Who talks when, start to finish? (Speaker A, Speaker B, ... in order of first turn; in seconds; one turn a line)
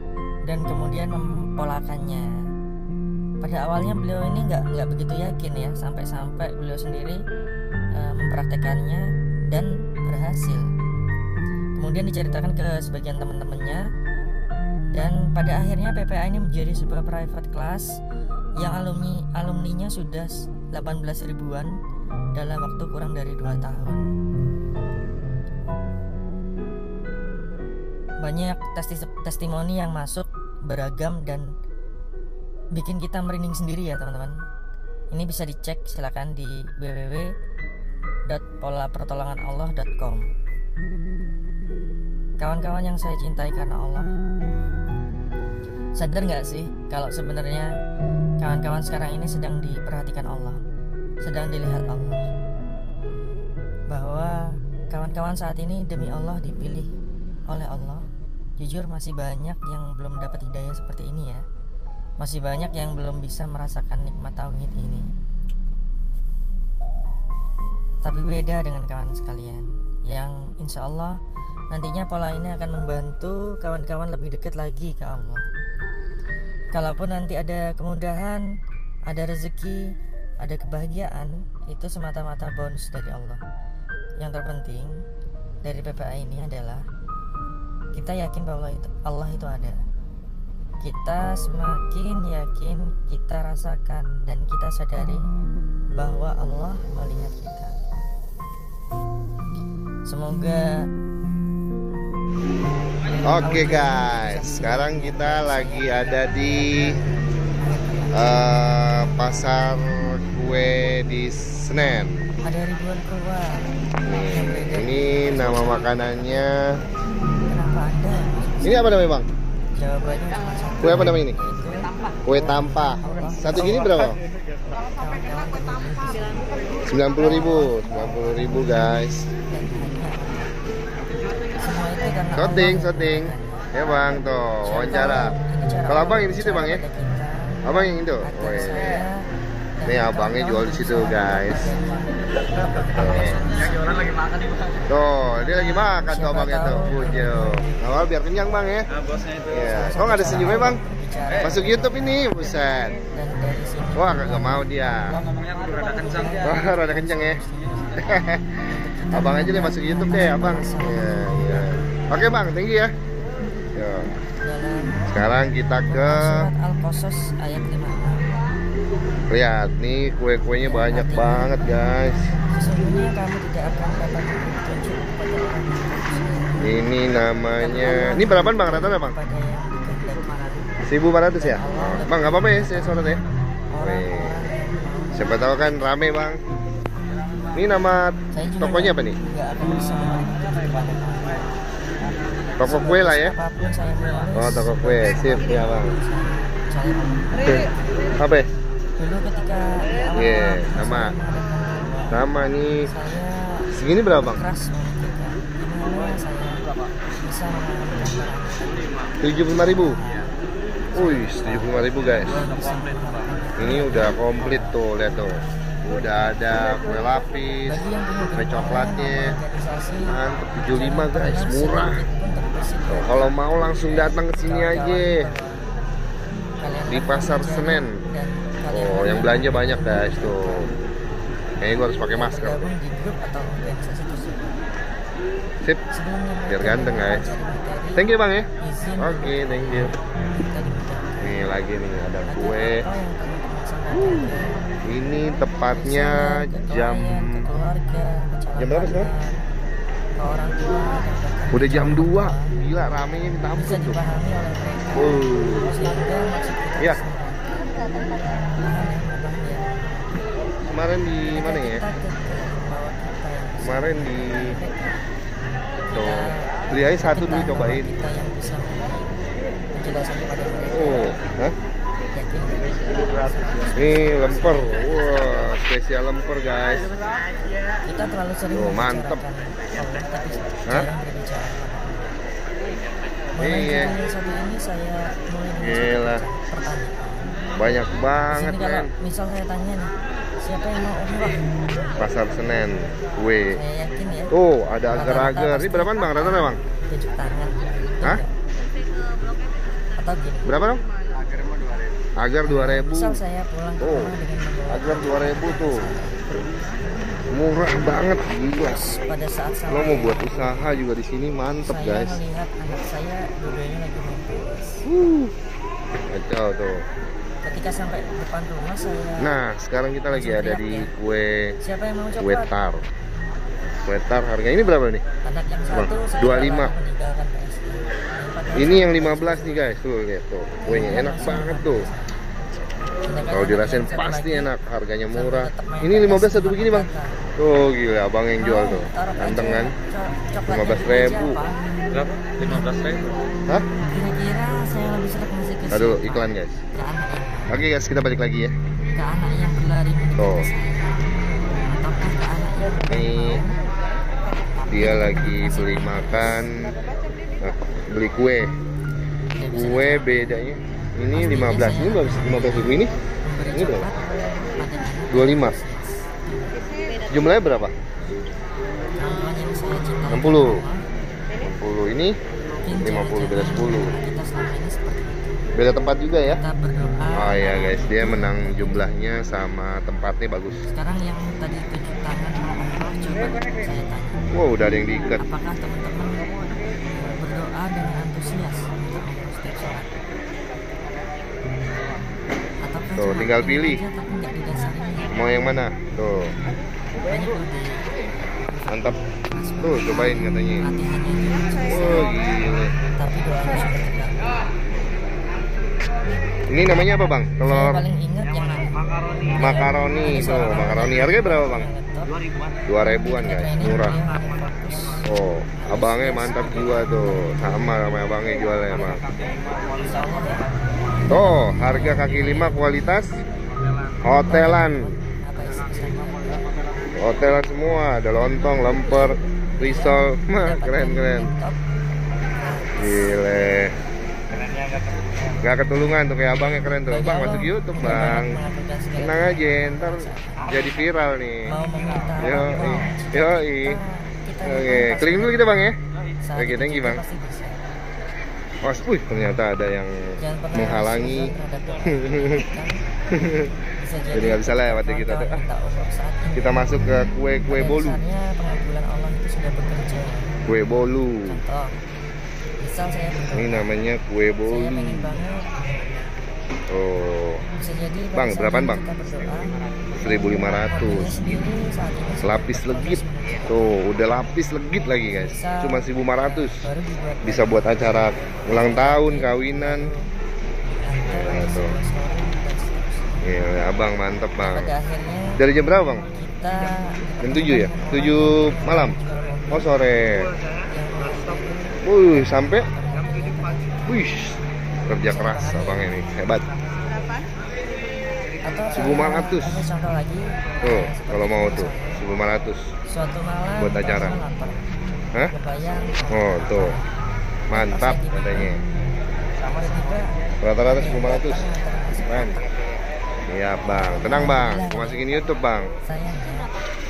Speaker A: 0.4-2.3
Speaker A: 3.4-7.2
Speaker A: 7.9-10.7
Speaker A: 11.8-13.9
Speaker A: 14.9-18.0
Speaker A: 18.6-21.8
Speaker A: 22.3-24.0
Speaker A: 28.2-31.5
Speaker A: 32.7-34.4
Speaker A: 35.1-37.3
Speaker A: 38.3-40.3
Speaker A: 42.4-44.1
Speaker A: 46.0-47.7
Speaker A: 48.4-50.6
Speaker A: 51.2-52.3
Speaker A: 53.9-56.9
Speaker A: 57.5-58.1
Speaker A: 58.6-61.4
Speaker A: 62.2-65.1
Speaker A: 68.0-71.2
Speaker A: 71.7-75.5
Speaker A: 76.7-78.5
Speaker A: 79.1-83.4
Speaker A: 84.2-85.0
Speaker A: 85.6-86.8
Speaker A: 87.9-89.8
Speaker A: 90.8-95.2
Speaker A: 96.0-97.8
Speaker A: 100.0-100.9
Speaker B: 103.2-107.0
Speaker A: 103.4-107.1
Speaker A: 107.6-108.5
Speaker B: 108.1-112.2
Speaker A: 112.4-116.0
Speaker B: 114.0-116.7
Speaker A: 117.4-119.0
Speaker B: 118.6-119.3
Speaker A: 119.8-124.0
Speaker B: 120.8-121.4
Speaker B: 122.3-124.2
Speaker A: 124.6-126.5
Speaker B: 126.8-129.3
Speaker A: 127.2-127.7
Speaker A: 129.5-130.5
Speaker A: 131.6-133.7
Speaker B: 132.3-135.3
Speaker A: 134.6-144.2
Speaker B: 135.9-136.8
Speaker B: 137.6-138.9
Speaker B: 139.9-141.7
Speaker B: 142.9-143.4
Speaker B: 144.9-148.9
Speaker A: 146.1-148.1
Speaker C: 149.1-149.4
Speaker B: 149.5-150.8
Speaker A: 149.6-161.7
Speaker B: 151.4-152.9
Speaker B: 153.9-155.1
Speaker C: 155.4-155.7
Speaker B: 156.4-157.4
Speaker B: 158.0-158.5
Speaker B: 159.1-162.9
Speaker B: 163.7-164.1
Speaker A: 164.4-165.1
Speaker B: 165.1-166.5
Speaker A: 165.9-168.4
Speaker B: 169.3-172.3
Speaker A: 170.6-171.5
Speaker A: 172.4-176.6
Speaker B: 176.6-179.2
Speaker A: 177.6-180.8
Speaker B: 180.8-183.2
Speaker A: 181.4-183.0
Speaker A: 183.7-185.7
Speaker B: 183.8-184.3
Speaker B: 185.1-186.4
Speaker B: 187.5-189.2
Speaker A: 188.3-191.6
Speaker A: 192.6-198.1
Speaker B: 192.6-193.3
Speaker B: 194.3-195.9
Speaker B: 198.2-198.5
Speaker A: 199.0-202.2
Speaker B: 200.1-201.1
Speaker B: 202.1-202.9
Speaker A: 202.8-208.9
Speaker B: 203.7-204.4
Speaker B: 209.2-210.0
Speaker A: 210.9-211.6
Speaker B: 210.9-212.4
Speaker A: 212.2-214.7
Speaker B: 213.6-217.8
Speaker A: 217.7-225.6
Speaker B: 218.3-219.3
Speaker B: 220.1-222.0
Speaker B: 222.9-225.2
Speaker A: 226.6-230.7
Speaker B: 226.9-228.0
Speaker B: 228.7-230.7
Speaker B: 231.6-232.6
Speaker A: 232.1-234.5
Speaker A: 235.9-241.2
Speaker B: 236.5-237.3
Speaker B: 237.9-239.9
Speaker B: 241.2-242.8
Speaker A: 242.3-244.6
Speaker B: 244.8-247.4
Speaker A: 245.7-249.3
Speaker B: 248.6-249.1
Speaker A: 250.2-252.5
Speaker B: 251.5-254.0
Speaker A: 253.5-257.6
Speaker B: 254.9-255.7
Speaker A: 258.5-260.0
Speaker B: 260.6-261.8
Speaker A: 261.3-265.0
Speaker B: 263.6-264.5
Speaker B: 265.9-267.9
Speaker A: 266.0-269.1
Speaker A: 269.7-271.2
Speaker B: 270.6-271.5
Speaker A: 272.1-275.4
Speaker B: 273.8-276.9
Speaker A: 277.9-282.0
Speaker B: 278.5-279.2
Speaker A: 283.4-287.2
Speaker B: 283.4-283.9
Speaker B: 285.6-286.2
Speaker B: 287.6-288.9
Speaker A: 288.3-291.4
Speaker B: 292.0-293.6
Speaker A: 293.5-294.3
Speaker B: 294.3-296.6
Speaker A: 294.9-298.3
Speaker A: 300.0-300.5
Speaker B: 300.4-300.8
Speaker B: 302.1-303.2
Speaker A: 302.5-306.4
Speaker B: 303.8-304.1
Speaker B: 304.7-305.8
Speaker B: 307.3-308.8
Speaker A: 308.6-310.7
Speaker B: 309.7-312.2
Speaker A: 311.6-314.9
Speaker B: 314.9-315.3
Speaker B: 316.1-316.8
Speaker A: 317.4-319.4
Speaker B: 319.2-321.6
Speaker A: 320.1-320.9
Speaker A: 321.6-322.5
Speaker B: 322.2-322.9
Speaker B: 323.8-325.0
Speaker A: 325.2-329.8
Speaker B: 325.7-326.7
Speaker B: 328.5-331.9
Speaker A: 330.6-334.5
Speaker B: 333.3-339.7
Speaker A: 335.1-337.2
Speaker A: 338.4-341.8
Speaker B: 340.5-341.4
Speaker C: 341.9-343.1
Speaker A: 342.4-342.7
Speaker A: 343.8-347.6
Speaker B: 345.7-346.6
Speaker B: 347.5-348.5
Speaker A: 348.9-351.1
Speaker B: 350.2-350.5
Speaker A: 351.6-353.6
Speaker B: 352.9-353.4
Speaker A: 354.6-356.4
Speaker B: 354.7-356.6
Speaker B: 357.4-358.5
Speaker A: 359.4-360.1
Speaker B: 359.5-362.9
Speaker A: 361.1-366.6
Speaker B: 363.5-363.9
Speaker B: 365.1-365.6
Speaker B: 367.1-367.8
Speaker A: 369.0-370.8
Speaker B: 370.1-370.6
Speaker B: 371.4-372.2
Speaker A: 372.6-375.4
Speaker B: 372.8-373.9
Speaker B: 375.5-376.4
Speaker A: 376.2-378.9
Speaker B: 377.1-380.6
Speaker A: 380.7-384.3
Speaker B: 384.3-385.2
Speaker A: 385.2-386.2
Speaker A: 386.9-389.9
Speaker A: 392.6-395.1
Speaker B: 393.0-393.8
Speaker B: 395.1-396.3
Speaker A: 397.0-402.1
Speaker B: 398.7-399.0
Speaker B: 399.6-400.6
Speaker B: 401.6-402.7
Speaker A: 402.9-404.2
Speaker B: 406.5-407.8
Speaker A: 407.4-412.1
Speaker B: 409.4-411.7
Speaker B: 412.7-414.0
Speaker A: 413.1-416.9
Speaker B: 415.0-419.0
Speaker A: 419.8-422.6
Speaker B: 421.1-423.2
Speaker B: 424.0-424.9
Speaker A: 424.2-426.4
Speaker B: 426.9-431.3
Speaker A: 428.9-431.6
Speaker A: 432.3-433.9
Speaker B: 432.8-433.7
Speaker A: 434.9-435.5
Speaker B: 435.4-438.4
Speaker A: 436.4-440.7
Speaker B: 439.0-441.5
Speaker A: 441.4-445.4
Speaker B: 442.2-443.8
Speaker B: 444.4-445.8
Speaker A: 446.2-447.6
Speaker B: 446.4-447.0
Speaker B: 448.6-452.4
Speaker A: 450.2-452.8
Speaker B: 453.1-453.5
Speaker A: 453.8-456.5
Speaker B: 454.1-455.4
Speaker B: 456.3-458.0
Speaker A: 457.5-460.4
Speaker B: 460.5-461.4
Speaker A: 461.2-461.8
Speaker A: 462.6-463.6
Speaker B: 463.3-465.0
Speaker A: 464.5-465.5
Speaker B: 466.7-467.4
Speaker A: 467.6-469.5
Speaker B: 468.1-468.8
Speaker B: 469.9-471.4
Speaker A: 470.0-473.6
Speaker B: 472.2-476.6
Speaker A: 475.0-480.1
Speaker B: 477.2-479.9
Speaker A: 480.8-483.2
Speaker B: 481.1-481.7
Speaker B: 483.2-484.7
Speaker A: 484.4-485.4
Speaker B: 485.4-486.1
Speaker A: 486.1-489.7
Speaker B: 487.2-489.0
Speaker B: 489.5-490.3
Speaker A: 490.6-494.1
Speaker B: 491.8-492.7
Speaker B: 493.9-496.5
Speaker A: 495.1-496.0
Speaker A: 496.8-497.2
Speaker A: 498.4-502.0
Speaker B: 498.7-499.6
Speaker B: 500.6-502.7
Speaker A: 502.9-504.6
Speaker B: 503.6-504.2
Speaker A: 505.2-506.9
Speaker B: 506.1-506.7
Speaker B: 507.5-508.6
Speaker A: 507.5-508.5
Speaker A: 509.4-512.5
Speaker B: 510.4-511.5
Speaker B: 512.1-512.3
Speaker B: 513.3-515.7
Speaker A: 513.7-515.1
Speaker A: 515.8-516.5